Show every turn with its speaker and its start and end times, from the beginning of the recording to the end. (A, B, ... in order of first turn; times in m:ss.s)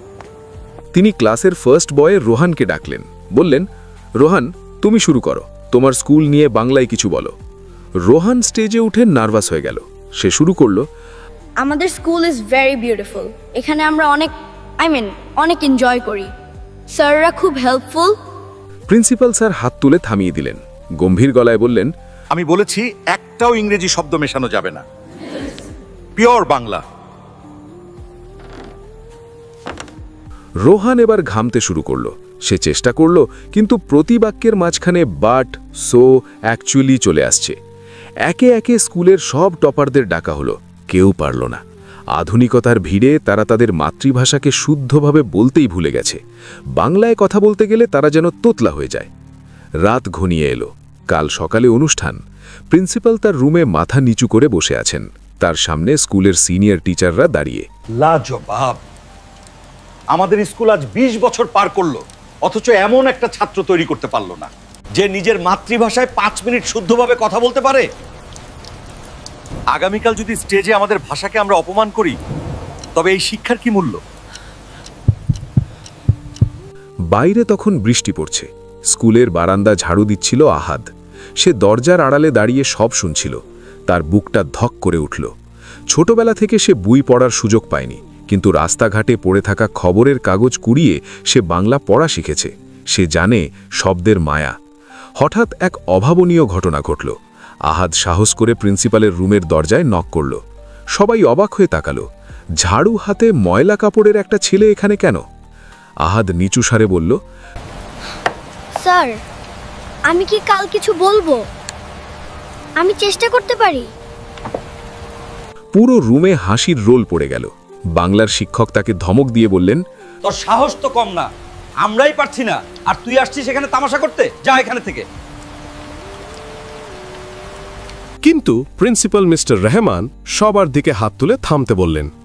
0:00.9-0:03.6 A
0:04.2-0:07.3 A
0:08.1-0:10.8 A
0:11.6-0:16.3 B
0:16.9-0:18.2 B
0:18.9-0:21.9 A
0:22.3-0:24.8 C
0:26.2-0:26.8 C
0:30.6-0:37.6 A
0:38.2-0:41.6 A
0:42.1-0:46.2 A
0:46.8-0:49.1 A
0:49.8-0:52.2 A
0:52.7-0:57.6 A
0:58.0-0:58.8 C
1:00.1-1:07.9 C
1:09.7-1:12.2 C
1:13.0-1:14.0 C
1:17.1-1:20.9 A
1:21.4-1:25.3 A
1:25.9-1:34.5 A
1:35.2-1:37.1 A
1:37.7-1:40.4 A
1:40.9-1:42.0 A
1:42.6-1:45.2 A
1:46.0-1:47.2 A
1:48.8-1:49.2 B
1:50.1-1:51.4 B
1:52.8-1:53.9 B
1:55.7-1:59.8 A
2:00.2-2:01.3 C
2:01.8-2:05.0 C
2:08.2-2:12.1 D